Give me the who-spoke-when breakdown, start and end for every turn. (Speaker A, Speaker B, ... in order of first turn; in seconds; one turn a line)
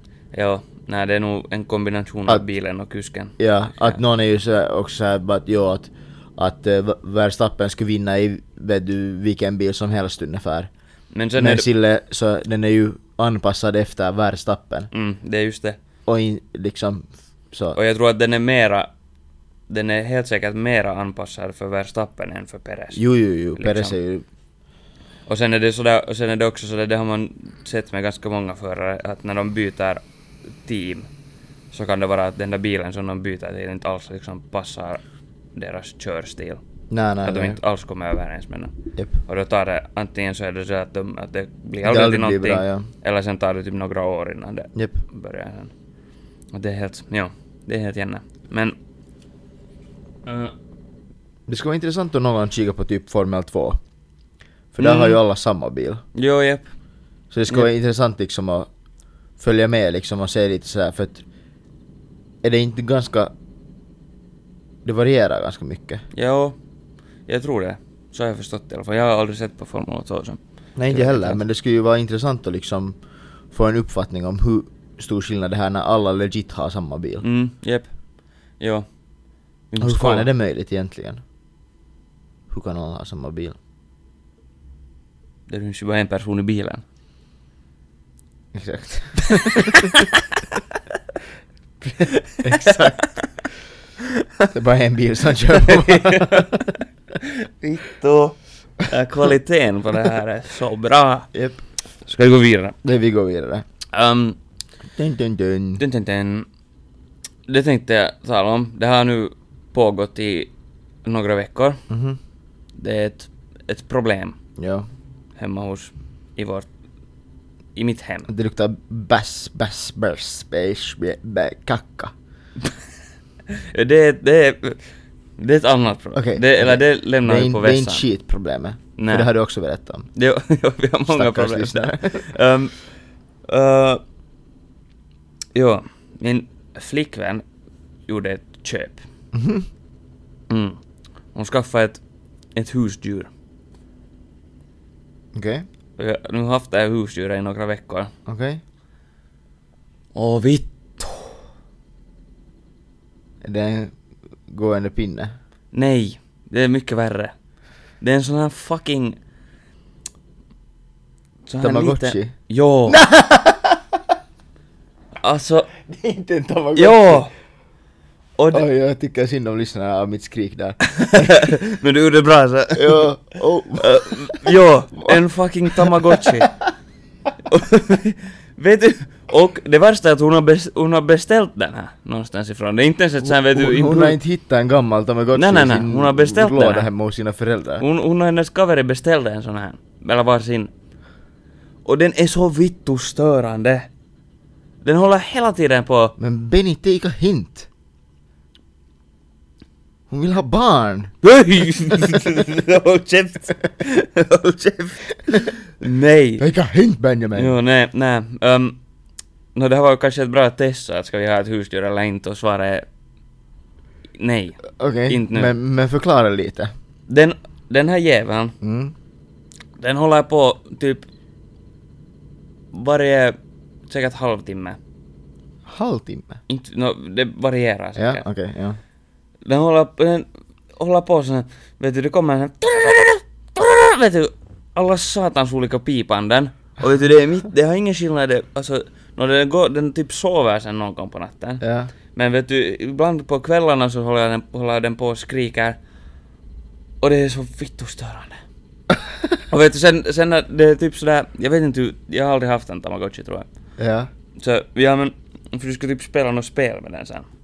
Speaker A: 0.3-4.0
Speaker B: 3.4-10.7
Speaker A: 11.1-11.7
Speaker B: 11.4-14.9
Speaker A: 14.9-15.8
Speaker B: 16.1-17.8
Speaker A: 17.8-18.9
Speaker A: 19.7-23.0
Speaker B: 22.9-24.2
Speaker A: 23.6-24.0
Speaker A: 25.3-30.0
Speaker A: 30.6-31.1
Speaker A: 31.7-35.0
Speaker A: 35.5-36.6
Speaker B: 36.9-37.6
Speaker A: 37.2-38.7
Speaker A: 39.2-45.7
Speaker B: 41.8-42.9
Speaker B: 44.8-45.0
Speaker A: 46.5-48.8
Speaker A: 50.3-50.5
Speaker B: 51.5-53.8
Speaker B: 54.7-56.0
Speaker A: 54.8-55.2
Speaker A: 56.1-56.6
Speaker B: 57.3-58.7
Speaker B: 59.4-61.2
Speaker B: 62.4-63.3
Speaker B: 64.8-66.0
Speaker A: 66.1-66.6
Speaker A: 67.3-71.4
Speaker B: 70.8-73.0
Speaker B: 73.5-77.2
Speaker A: 77.2-77.9
Speaker A: 78.6-78.8
Speaker A: 79.7-80.3
Speaker B: 79.8-81.2
Speaker B: 82.5-83.6
Speaker A: 85.5-86.8
Speaker B: 88.5-89.9
Speaker A: 89.4-90.6
Speaker B: 91.8-93.0
Speaker A: 92.0-93.3
Speaker B: 94.5-96.7
Speaker A: 95.5-101.3
Speaker B: 101.3-101.6
Speaker A: 102.0-102.8
Speaker B: 102.8-103.7
Speaker A: 103.9-104.4
Speaker B: 105.0-105.8
Speaker A: 105.8-106.5
Speaker A: 107.5-110.5
Speaker A: 111.0-111.8
Speaker B: 111.9-112.2
Speaker A: 112.8-114.4
Speaker B: 114.6-114.9
Speaker A: 115.4-116.7
Speaker A: 117.8-118.3
Speaker B: 118.3-122.1
Speaker A: 123.5-124.8
Speaker A: 125.4-128.1
Speaker B: 126.2-130.1
Speaker A: 129.0-129.3
Speaker A: 130.2-132.8
Speaker B: 131.1-132.3
Speaker A: 133.5-134.0
Speaker A: 135.6-137.4
Speaker A: 138.1-139.0
Speaker B: 139.3-139.7
Speaker A: 140.5-140.8
Speaker A: 141.3-142.0
Speaker A: 142.6-143.3
Speaker B: 145.3-145.7
Speaker A: 146.0-148.1
Speaker B: 148.3-148.6
Speaker A: 150.2-151.4
Speaker B: 153.4-154.0
Speaker B: 154.5-155.3
Speaker A: 155.7-157.3
Speaker A: 158.0-159.2
Speaker A: 161.5-163.0
Speaker B: 161.6-162.3
Speaker B: 162.9-163.8
Speaker A: 165.2-165.7
Speaker B: 165.9-167.2
Speaker A: 166.8-167.3
Speaker A: 168.4-168.7
Speaker B: 168.5-171.4
Speaker A: 170.9-173.1
Speaker B: 172.8-175.2
Speaker A: 173.8-176.6
Speaker B: 175.7-176.5
Speaker A: 177.4-184.2
Speaker B: 183.2-187.8
Speaker A: 185.3-186.9
Speaker A: 187.8-190.7
Speaker A: 191.8-193.9
Speaker A: 194.8-196.1
Speaker B: 196.2-197.7
Speaker B: 200.1-201.1
Speaker A: 201.2-206.4
Speaker B: 206.4-207.6
Speaker A: 207.3-208.8
Speaker A: 209.6-212.9
Speaker A: 214.2-215.5
Speaker B: 214.7-216.7
Speaker A: 217.1-218.6
Speaker B: 218.6-218.9
Speaker A: 219.8-221.1
Speaker A: 222.7-223.4
Speaker A: 223.9-224.8
Speaker B: 225.7-226.4
Speaker A: 226.5-228.2
Speaker B: 228.0-228.8
Speaker A: 229.4-241.6
Speaker B: 241.6-241.9
Speaker A: 242.1-245.8
Speaker A: 247.0-248.4
Speaker A: 249.5-253.5
Speaker B: 253.8-254.1
Speaker A: 254.4-257.3